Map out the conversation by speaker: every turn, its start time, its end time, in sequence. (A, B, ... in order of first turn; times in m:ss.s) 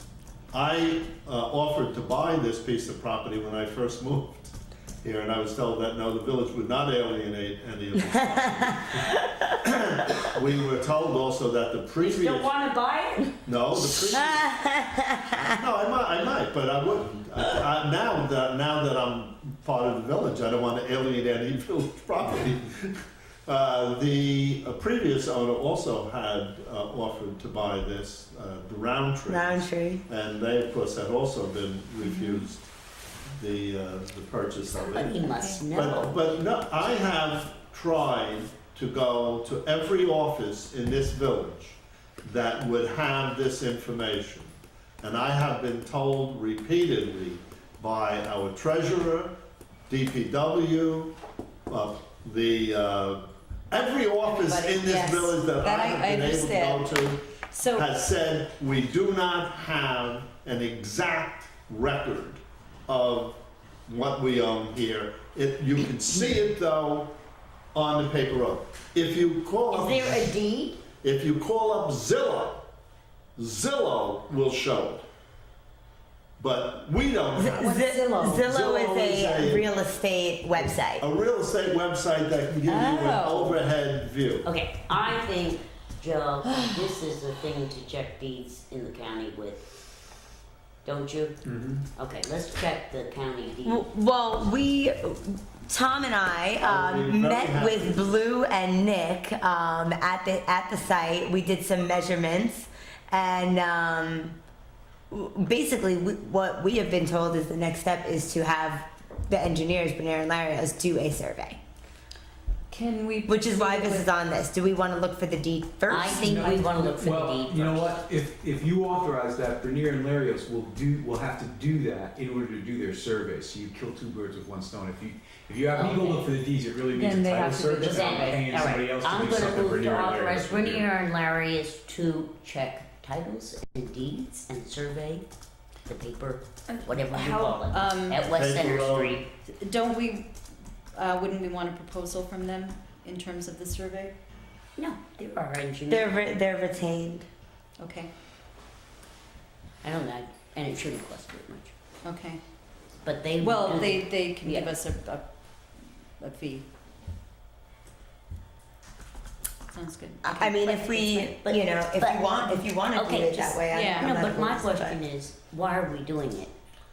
0:00.5-0:09.0 A
0:08.1-0:09.4 B
0:09.6-0:12.5 A
0:12.0-0:13.4 C
0:13.4-0:14.5 A
0:13.8-0:15.6 B
0:15.5-0:32.6 A
0:29.3-0:30.0 B
0:32.0-0:32.5 D
0:33.4-0:35.2 A
0:34.7-0:36.4 C
0:35.2-0:35.7 D
0:35.7-0:49.4 A
0:49.9-0:51.2 A
0:51.7-1:07.2 A
0:54.1-0:58.0 D
1:07.7-1:10.4 A
1:09.7-1:10.8 C
1:11.0-1:12.6 A
1:13.4-1:15.0 A
1:16.4-1:19.6 A
1:17.4-1:21.0 B
1:17.6-1:18.1 C
1:20.6-1:24.5 A
1:22.7-1:23.6 B
1:24.4-1:29.6 C
1:30.8-1:31.4 C
1:31.4-1:31.8 E
1:32.0-1:33.8 C
1:33.6-1:44.4 B
1:36.6-1:38.1 A
1:45.1-1:51.6 B
1:52.7-1:54.1 D
1:53.2-1:56.6 B
1:55.9-1:58.0 C
1:56.1-2:10.9 E
2:05.7-2:06.3 C
2:06.9-2:08.4 D
2:07.8-2:15.2 C
2:15.8-2:19.3 C
2:16.7-2:18.2 D
2:18.3-2:19.2 A
2:19.4-2:20.3 D
2:20.9-2:24.1 D
2:24.8-2:26.2 C
2:25.9-2:27.3 B
2:27.8-2:28.1 D
2:29.8-2:31.7 C
2:32.0-2:32.4 D
2:33.0-2:34.7 C
2:33.4-2:35.2 D
2:36.2-2:36.6 D
2:39.7-2:41.3 D
2:40.2-2:45.0 B
2:41.4-2:46.5 C
2:43.7-2:44.1 D